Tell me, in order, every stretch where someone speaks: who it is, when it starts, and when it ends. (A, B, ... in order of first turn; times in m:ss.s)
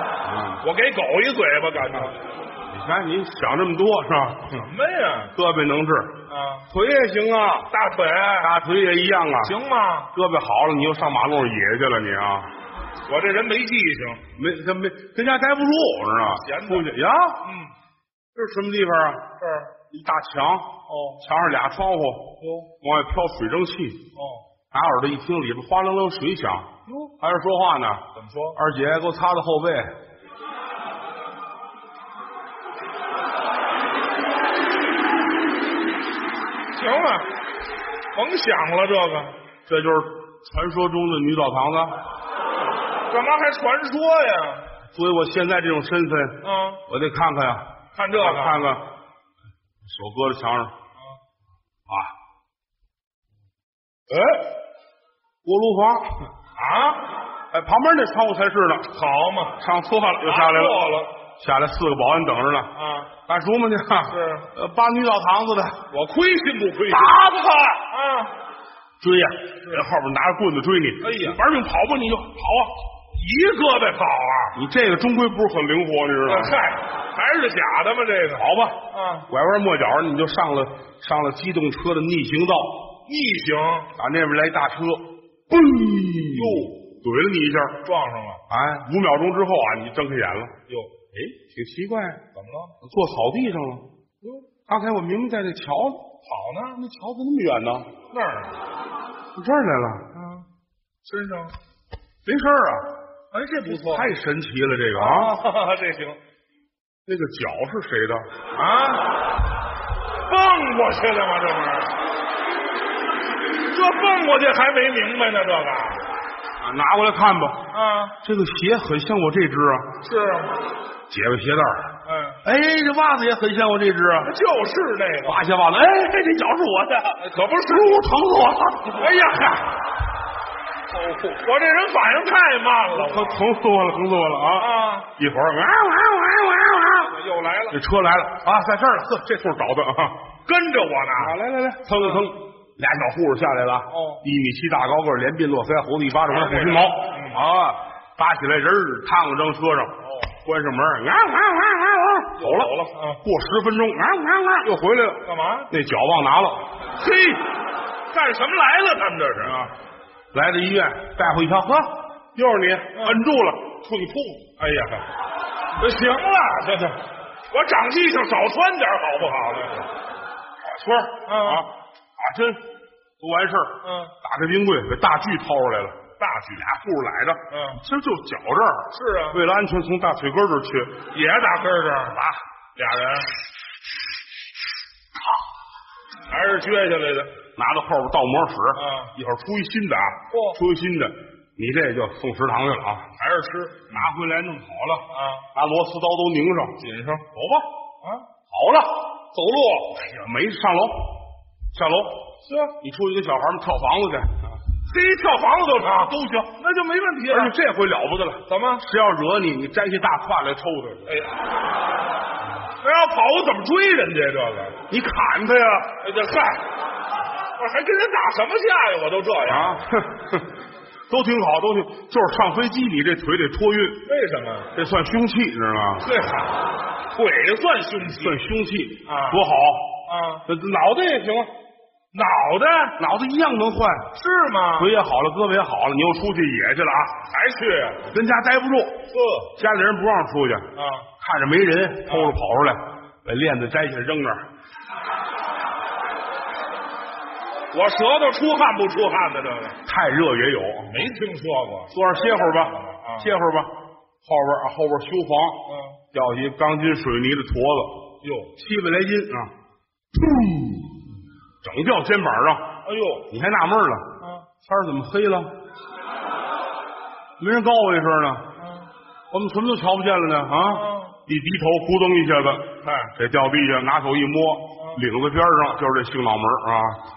0:00.2-0:00.6 A
0:00.6-0:02.2 B
0:02.7-0:04.7 A
0:04.5-0:05.3 B
0:05.4-0:07.7 A
0:06.3-0:06.7 B
0:07.7-0:08.5 B
0:08.4-0:09.6 A
0:09.4-0:10.1 B
0:10.1-0:12.5 A
0:13.1-0:14.2 B
0:14.3-0:17.4 A
0:16.3-0:16.9 B
0:17.4-0:17.7 B
0:18.4-0:19.2 A
0:19.4-0:19.7 B
0:19.9-0:24.0 A
0:20.9-0:21.2 B
0:22.4-0:22.7 B
0:24.1-0:24.4 B
0:24.7-0:30.0 A
0:28.1-0:28.6 B
0:36.7-0:37.3 B
0:38.1-0:39.4 B
0:39.6-0:42.0 A
0:43.1-0:44.7 B
0:44.9-0:48.8 A
0:46.4-0:46.8 B
0:47.9-0:48.6 B
0:49.8-0:50.7 A
0:54.1-0:54.4 A
0:55.4-0:56.3 A
0:56.6-0:57.0 B
0:57.5-0:58.9 A
0:58.9-0:59.6 B
0:59.6-1:02.7 A
1:00.2-1:01.1 B
1:02.8-1:03.1 B
1:03.2-1:05.8 A
1:04.1-1:04.5 B
1:05.9-1:07.2 B
1:06.9-1:07.8 A
1:07.8-1:08.3 B
1:09.0-1:12.7 A
1:11.0-1:11.4 B
1:13.1-1:14.6 B
1:14.6-1:16.6 A
1:16.2-1:19.3 B
1:18.3-1:22.9 A
1:23.1-1:23.9 B
1:24.0-1:27.8 A
1:26.3-1:26.7 B
1:27.8-1:28.4 B
1:28.5-1:30.6 A
1:30.7-1:30.9 B
1:31.1-1:32.2 A
1:32.3-1:32.8 B
1:32.8-1:33.8 A
1:34.7-1:36.0 A
1:36.2-1:36.8 B
1:36.8-1:37.9 A
1:38.1-1:38.6 B
1:39.4-1:40.1 A
1:40.1-1:40.5 B
1:41.0-1:41.6 B
1:42.2-1:42.9 A
1:43.3-1:44.1 B
1:43.7-1:45.4 A
1:44.9-1:46.2 B
1:47.1-1:48.2 A
1:48.5-1:49.2 B
1:50.2-1:52.0 B
1:53.7-1:56.1 B
1:56.6-1:57.6 A
1:57.7-1:58.2 B
1:58.2-1:59.9 A
2:00.0-2:00.6 B
2:01.1-2:01.9 A
2:02.0-2:02.4 B
2:02.4-2:04.3 A
2:04.2-2:05.4 B
2:05.2-2:09.2 A
2:07.2-2:08.1 B
2:09.0-2:09.7 B
2:10.9-2:13.4 B
2:12.9-2:17.1 A
2:14.6-2:15.1 B
2:17.0-2:17.8 B
2:17.7-2:20.2 A
2:20.5-2:21.4 B
2:21.2-2:36.7 A
2:21.9-2:22.2 B
2:23.9-2:24.2 B
2:26.3-2:27.4 B
2:30.0-2:30.3 B
2:32.4-2:33.2 B
2:35.2-2:35.7 B
2:36.9-2:37.5 B
2:38.1-2:39.7 B
2:40.3-2:44.5 A
2:42.9-2:43.2 B
2:44.6-2:45.1 B
2:45.8-2:49.9 B
2:50.6-2:52.6 A
2:51.2-2:51.6 B
2:53.2-2:56.0 A
2:53.8-2:54.1 B
2:56.2-2:56.6 B
2:56.6-3:01.0 A
2:57.5-2:57.8 B
2:58.9-2:59.4 B
3:01.1-3:03.3 B
3:06.3-3:07.3 B
3:07.6-3:13.1 A
3:08.8-3:09.1 B
3:10.3-3:10.6 B
3:13.2-3:14.1 B
3:13.9-3:16.8 A
3:15.1-3:15.5 B
3:16.8-3:17.3 B
3:17.3-3:17.6 A
3:18.0-3:18.3 B
3:18.5-3:19.0 A
3:19.3-3:20.1 B
3:20.1-3:21.2 A
3:21.7-3:22.3 A
3:22.4-3:22.8 B
3:22.8-3:24.6 A
3:24.8-3:27.5 B
3:26.1-3:26.4 A
3:27.3-3:31.1 A
3:28.5-3:28.8 B
3:31.1-3:31.4 B
3:32.8-3:34.8 B
3:34.9-3:36.0 A
3:36.0-3:36.7 B
3:37.6-3:39.8 B
3:39.5-3:40.5 A
3:41.1-3:44.0 A
3:44.0-3:44.7 B
3:44.7-3:46.1 A
3:46.0-3:48.4 B
3:48.0-3:49.9 A
3:49.0-3:49.4 B
3:50.1-3:50.4 B
3:50.5-3:51.5 A
3:52.1-3:53.0 B
3:53.0-3:54.1 A
3:54.1-3:54.9 B
3:54.8-3:57.2 A
3:57.3-3:58.0 B
3:58.1-4:04.4 A
3:59.1-3:59.5 B
4:00.8-4:01.1 B
4:02.1-4:02.4 B
4:07.7-4:09.8 B
4:09.9-4:11.0 A
4:10.9-4:13.3 B
4:11.9-4:18.0 A
4:15.6-4:16.0 B
4:18.2-4:18.5 B
4:18.6-4:19.5 A
4:20.1-4:21.0 A
4:21.6-4:22.8 A
4:22.8-4:23.3 B
4:23.3-4:25.5 A
4:24.2-4:24.5 B
4:27.4-4:28.5 A
4:28.6-4:28.9 B
4:29.3-4:37.0 A
4:30.6-4:31.2 B
4:32.8-4:33.1 B
4:34.8-4:35.0 B